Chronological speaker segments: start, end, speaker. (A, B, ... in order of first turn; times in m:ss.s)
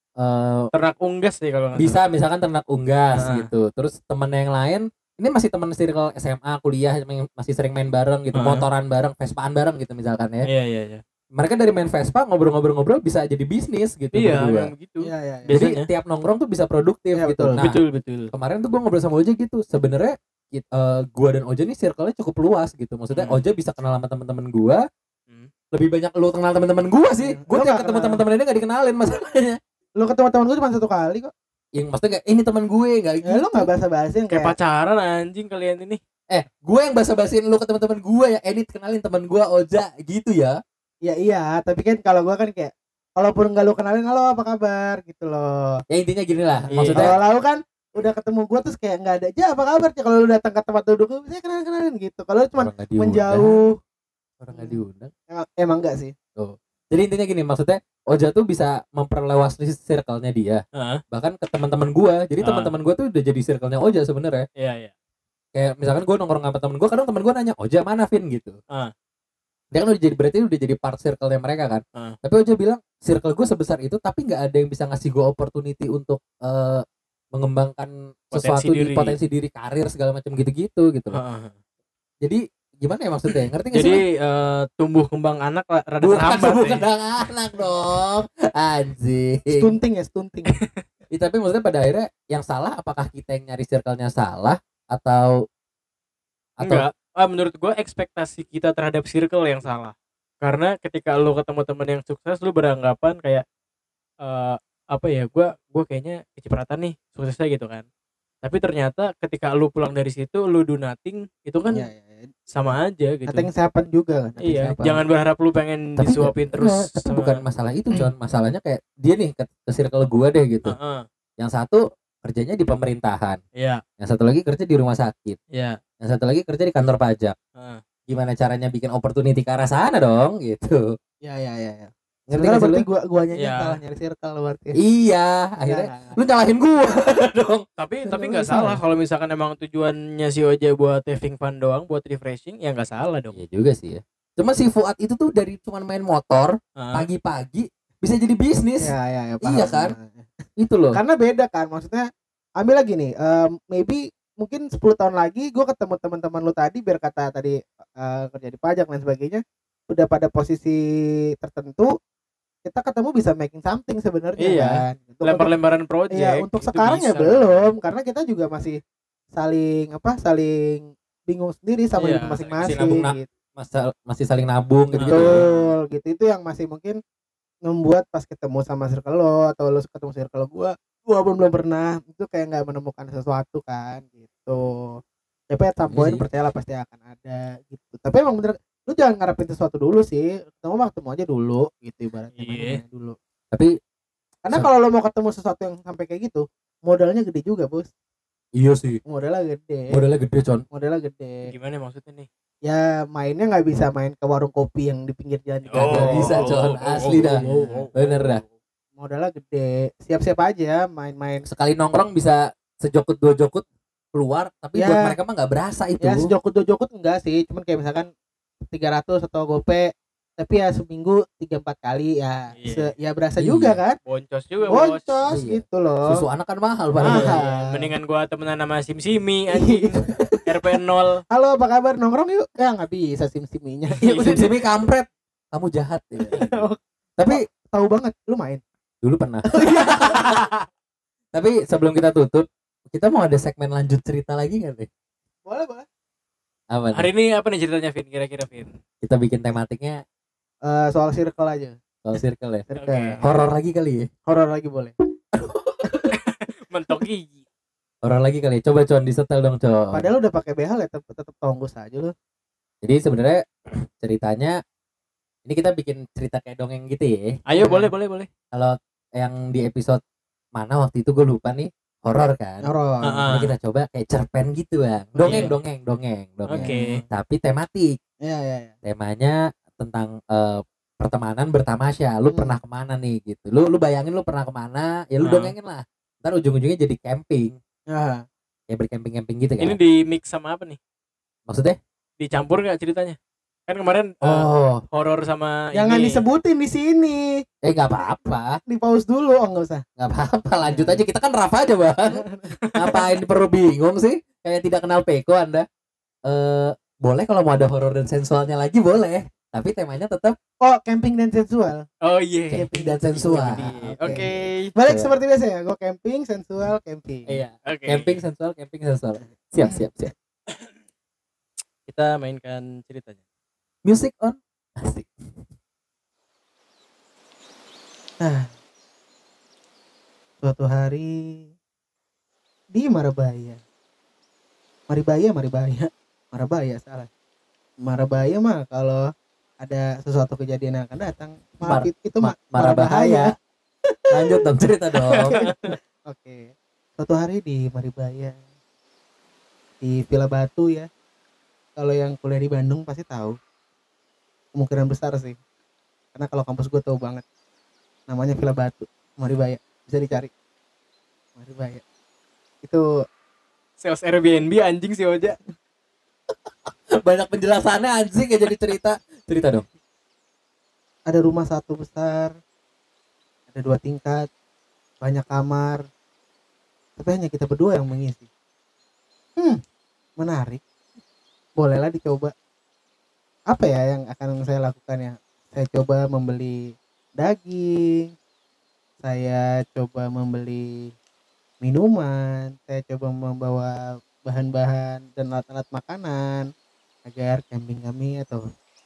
0:00.2-0:00.7 A
0:00.7-0:02.0 B
0:01.7-0:10.5 A
0:03.1-0:03.5 B
0:08.3-0:08.6 B
0:10.4-0:11.0 B
0:11.3-0:14.7 A
0:14.1-0:15.9 B
0:15.0-0:15.6 C
0:15.5-0:17.8 A
0:17.2-0:17.6 C
0:17.6-0:18.3 B
0:18.3-0:24.8 A
0:23.1-0:23.4 B
0:25.7-0:29.6 A
0:27.2-0:28.2 C
0:30.0-0:31.3 C
0:31.8-0:33.7 A
0:33.2-0:34.5 C
0:34.3-0:36.0 B
0:36.3-0:40.6 A
0:41.0-0:45.8 C
0:45.9-0:47.2 A
0:46.6-0:53.7 C
0:46.7-0:47.2 B
0:52.6-0:53.6 A
0:54.4-0:55.1 A
0:54.5-0:56.1 C
0:56.4-1:04.4 A
1:00.8-1:01.0 B
1:02.4-1:02.7 B
1:04.6-1:04.9 B
1:05.5-1:08.6 A
1:09.7-1:21.2 A
1:18.3-1:19.2 B
1:21.1-1:21.5 B
1:22.2-1:24.0 A
1:23.7-1:26.8 B
1:26.0-1:29.7 A
1:29.5-1:30.6 C
1:31.1-1:35.4 A
1:36.6-1:36.9 A
1:36.6-1:43.4 B
1:44.2-1:47.8 B
1:48.4-1:51.9 B
1:51.7-1:52.3 C
1:52.5-1:53.5 B
1:53.3-1:55.0 C
1:54.4-1:57.4 B
1:56.0-2:00.7 A
2:00.6-2:01.0 B
2:01.4-2:03.4 A
2:04.0-2:05.4 A
2:05.5-2:05.8 B
2:06.0-2:07.3 A
2:07.6-2:07.8 B
2:08.1-2:10.8 A
2:11.2-2:14.8 C
2:12.3-2:12.9 A
2:13.4-2:13.8 B
2:14.8-2:18.8 A
2:15.6-2:16.2 C
2:17.8-2:23.4 B
2:23.3-2:29.9 A
2:26.8-2:27.0 B
2:28.8-2:30.3 C
2:30.6-2:31.0 A
2:30.9-2:32.1 C
2:32.6-2:40.8 C
2:41.4-2:41.9 C
2:42.6-2:45.5 C
2:44.4-2:47.7 B
2:46.1-2:48.8 C
2:49.3-2:53.3 C
2:52.0-2:52.8 B
2:52.6-2:55.4 A
2:54.9-2:55.7 B
2:55.0-2:57.0 C
2:57.6-3:05.0 C
3:05.5-3:13.2 C
3:05.9-3:06.2 A
3:12.3-3:12.8 B
3:14.4-3:17.9 C
3:18.6-3:19.0 A
3:19.0-3:20.0 C
3:19.9-3:20.6 A
3:20.7-3:21.5 C
3:21.4-3:22.3 B
3:22.6-3:26.5 C
3:25.7-3:28.5 B
3:25.8-3:27.4 A
3:27.0-3:27.9 C
3:27.9-3:28.4 A
3:29.0-3:31.4 C
3:31.4-3:36.3 A
3:34.8-3:35.2 C
3:36.0-3:38.1 C
3:38.7-3:44.0 C
3:42.6-3:42.9 B
3:43.4-3:43.8 A
3:44.0-3:45.2 B
3:44.7-3:46.2 C
3:45.3-3:47.4 A
3:47.0-3:47.7 C
3:47.0-3:50.0 B
3:49.5-3:50.4 C
3:50.5-3:51.2 B
3:51.3-3:54.5 C
3:53.9-3:54.4 B
3:54.0-3:56.6 A
3:56.3-3:58.6 C
3:59.0-4:00.4 A
3:59.5-4:00.6 C
4:01.3-4:04.9 A
4:05.4-4:05.8 C
4:06.7-4:07.1 A
4:06.9-4:08.7 B
4:09.0-4:10.0 A
4:10.6-4:11.8 C
4:12.0-4:12.6 A
4:12.7-4:13.2 C
4:12.7-4:13.2 B
4:13.2-4:14.1 A
4:14.2-4:14.9 C
4:15.3-4:16.0 A
4:16.1-4:17.4 B
4:18.0-4:20.0 A
4:19.9-4:22.1 C
4:22.8-4:24.6 A
4:25.4-4:27.3 A
4:27.5-4:28.3 B
4:27.6-4:27.9 C
4:28.5-4:30.0 A
4:30.5-4:32.6 A
4:32.6-4:33.2 C
4:33.0-4:33.5 B
4:33.3-4:37.9 A
4:35.2-4:35.5 C
4:35.2-4:35.5 B
4:36.5-4:37.0 B
4:36.6-4:37.0 C
4:38.2-4:38.7 C
4:38.8-4:47.6 A
4:42.3-4:42.6 C
4:45.2-4:45.5 B
4:47.9-4:48.2 C
4:48.7-4:49.8 A
4:49.6-4:50.8 B
4:51.5-4:51.8 A
4:52.2-4:56.2 B
4:54.2-4:54.8 A
4:55.7-4:57.4 C
4:57.6-4:58.6 A
4:58.7-4:59.8 C
5:00.0-5:05.6 A
5:00.6-5:01.0 C
5:02.1-5:02.9 C
5:06.2-5:10.4 A
5:10.6-5:11.8 C
5:12.0-5:12.6 B
5:12.5-5:14.2 C
5:12.6-5:14.2 A
5:13.2-5:14.7 B
5:14.7-5:17.4 C
5:14.8-5:15.1 A
5:17.3-5:20.1 A
5:17.6-5:18.2 B
5:21.9-5:23.2 B
5:23.8-5:25.1 A
5:28.2-5:28.5 C
5:30.4-5:31.4 C
5:32.7-5:33.6 C
5:34.9-5:37.1 C
5:37.8-5:39.0 C
5:39.6-5:43.3 C
5:41.6-5:43.3 A
5:43.8-5:44.4 C
5:44.1-5:45.4 A
5:45.0-5:45.8 B
5:45.3-5:48.4 C
5:49.8-5:50.9 C
5:51.8-5:53.4 C
5:54.5-5:55.4 C
5:56.1-5:57.2 C
5:58.1-6:00.3 C
6:01.4-6:01.8 C
6:03.8-6:05.4 B
6:07.0-6:09.6 A
6:11.1-6:12.3 C
6:13.5-6:14.3 C
6:15.0-6:15.8 C
6:17.0-6:18.3 C
6:20.2-6:20.6 C
6:21.6-6:22.3 C
6:23.5-6:26.6 C
6:27.2-6:28.1 C
6:29.0-6:30.6 C
6:31.6-6:36.5 C
6:37.0-6:38.4 C